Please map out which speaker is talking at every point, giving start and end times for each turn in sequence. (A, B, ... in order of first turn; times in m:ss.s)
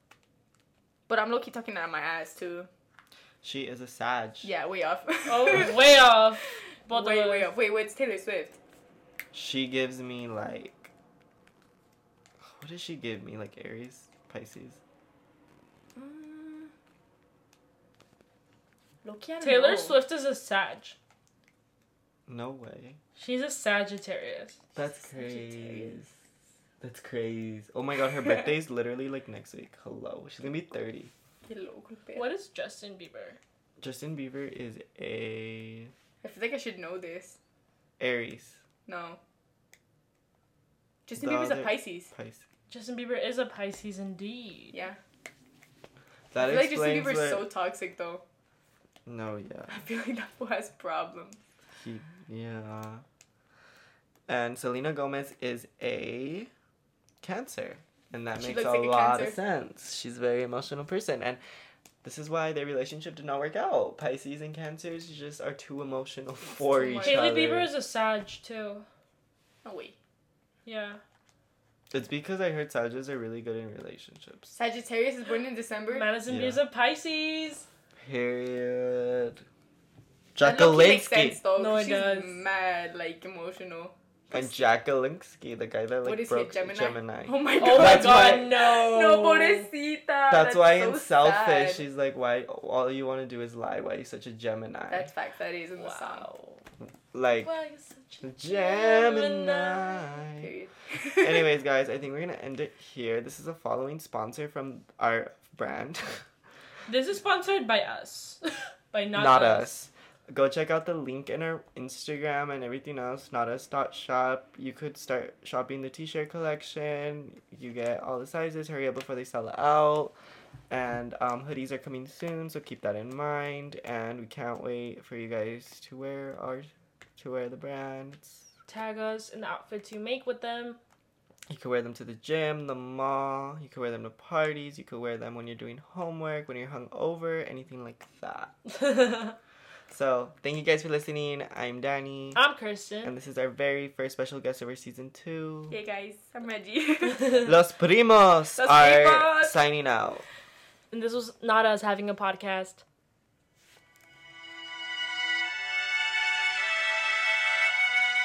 0:01.1-0:02.7 A
0:03.4-0:04.5 B
0:04.4-0:05.9 A
0:05.3-0:07.5 C
0:06.4-0:08.6 A
0:09.3-0:10.9 B
0:12.4-0:14.8 B
0:16.0-0:16.7 A
0:19.0-0:20.0 A
0:19.4-0:21.0 C
0:22.3-0:23.0 B
0:23.2-0:24.6 C
0:24.8-0:26.2 B
0:24.8-0:26.0 A
0:26.8-0:31.1 B
0:31.5-0:32.3 A
0:32.2-0:33.4 C
0:33.8-0:35.9 B
0:36.2-0:37.4 A
0:38.0-0:38.6 B
0:38.9-0:39.2 A
0:41.1-0:42.1 A
0:41.2-0:42.4 B
0:42.7-0:44.8 C
0:44.7-0:45.0 A
0:46.3-0:47.5 B
0:46.4-0:48.2 A
0:49.1-0:49.8 B
0:49.7-0:51.4 A
0:51.8-0:53.0 B
0:54.3-0:56.5 B
0:57.2-1:01.4 B
0:58.4-0:59.4 A
1:02.0-1:07.7 B
1:06.6-1:08.8 C
1:06.8-1:07.2 A
1:09.6-1:10.0 A
1:10.7-1:11.0 C
1:11.9-1:14.6 B
1:14.6-1:16.2 A
1:15.9-1:17.7 C
1:16.3-1:16.6 B
1:18.0-1:19.4 B
1:20.4-1:21.4 B
1:20.4-1:24.6 A
1:21.6-1:22.4 C
1:24.3-1:28.5 B
1:26.0-1:31.8 A
1:27.6-1:29.7 C
1:30.3-1:35.1 B
1:34.9-1:36.3 A
1:35.8-1:36.6 C
1:37.1-1:37.5 B
1:37.4-1:40.2 C
1:38.2-1:40.5 B
1:40.4-1:41.5 A
1:41.2-1:46.2 B
1:46.9-1:49.7 C
1:49.1-2:00.1 B
2:00.7-2:08.4 B
2:08.7-2:10.8 C
2:11.5-2:18.5 B
2:18.8-2:19.3 C
2:19.9-2:22.4 B
2:22.4-2:23.1 C
2:23.0-2:25.8 B
2:25.7-2:27.5 A
2:27.4-2:30.3 B
2:28.6-2:29.6 A
2:30.9-2:32.8 C